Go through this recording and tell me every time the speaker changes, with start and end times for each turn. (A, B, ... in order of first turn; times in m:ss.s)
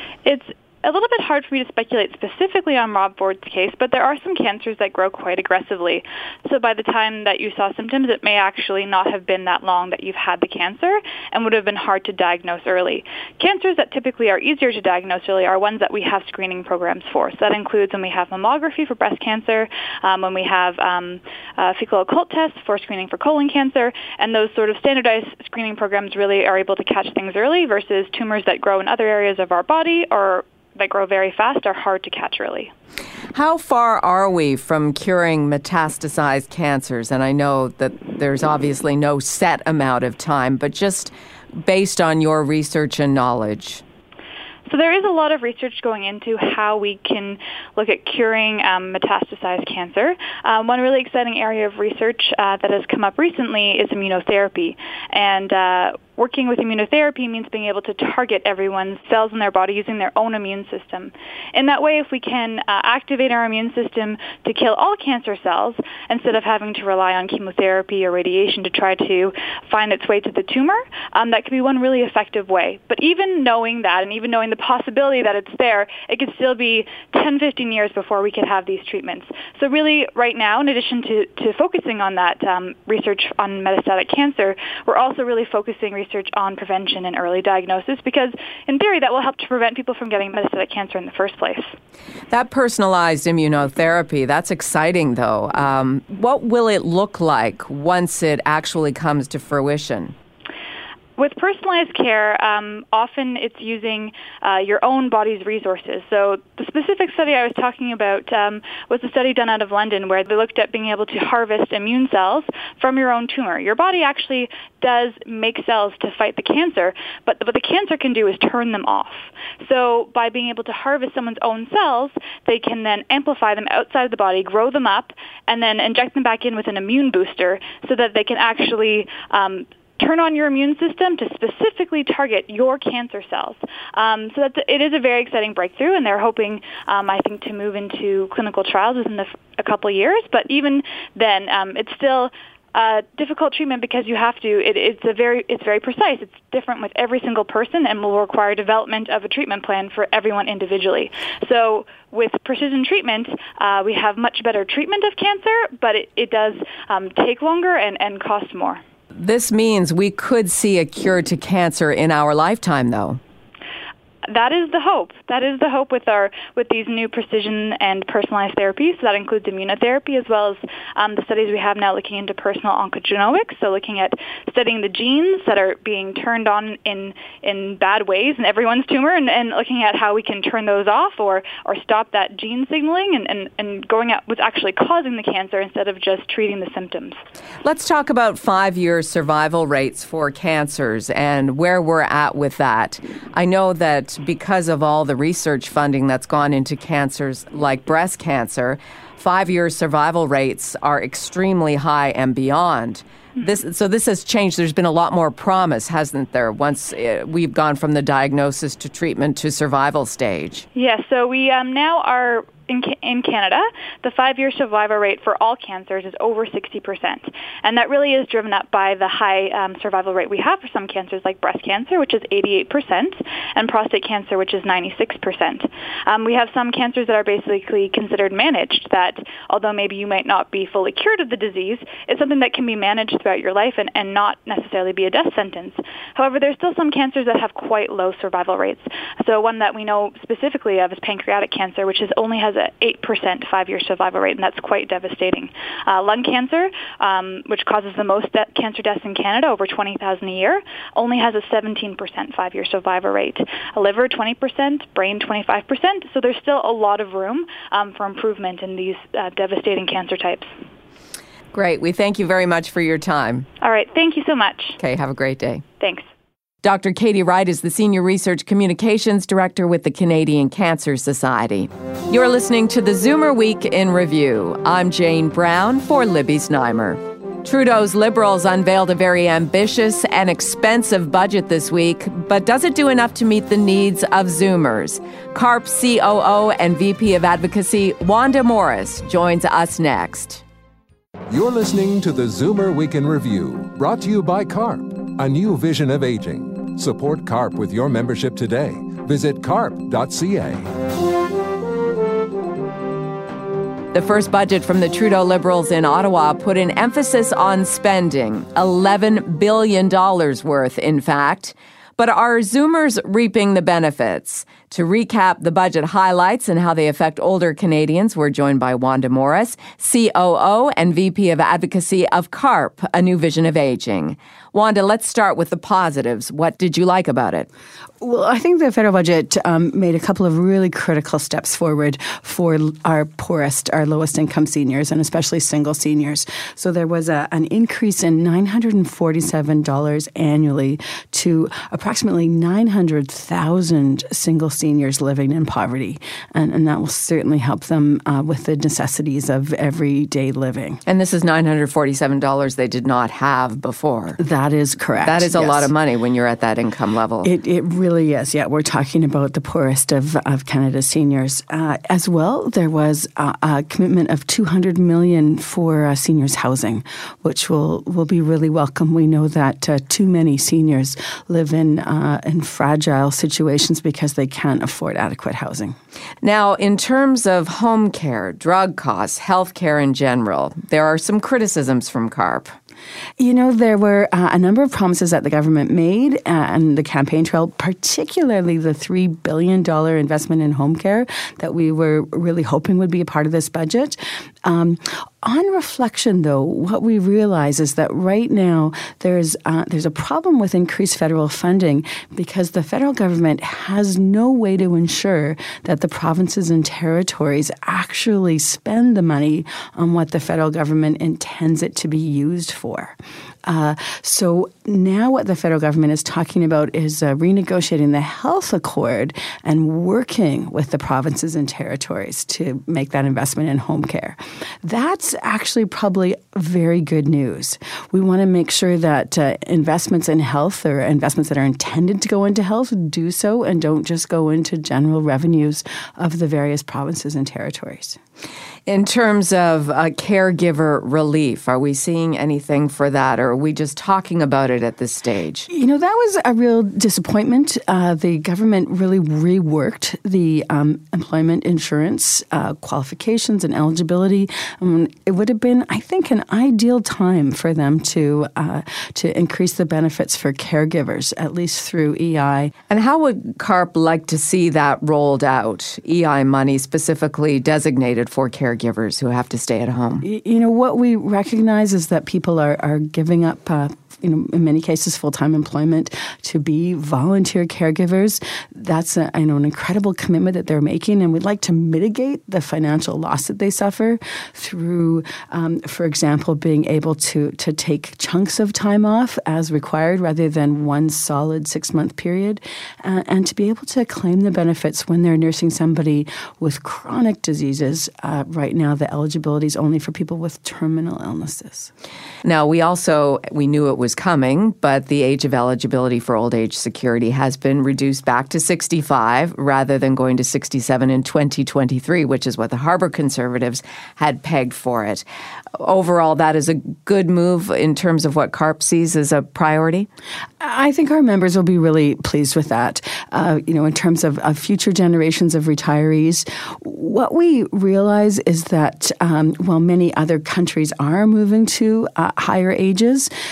0:00.2-0:32.7 A
0:33.3-0:43.8 B
0:44.7-1:31.7 A
1:32.3-1:40.2 B
1:41.2-2:38.8 A
2:39.2-2:43.2 B
2:44.3-3:07.2 A
3:07.6-3:30.6 B
3:30.8-4:20.5 A
4:21.5-4:23.5 B
4:23.6-4:24.8 A
4:24.8-4:25.6 B
4:26.6-4:50.4 B
4:51.3-5:00.7 C
5:03.9-5:27.5 B
5:28.0-5:50.8 D
5:50.9-5:54.2 B
5:54.2-5:55.7 D
5:55.0-5:57.3 B
5:57.2-6:15.8 D
6:16.2-6:22.5 B
6:23.2-7:18.0 D
7:18.7-7:25.5 B
7:25.5-7:42.5 D
7:42.7-7:50.0 B
7:50.0-8:21.7 D
8:22.2-8:35.0 B
8:35.6-8:39.9 B
8:40.4-8:53.1 D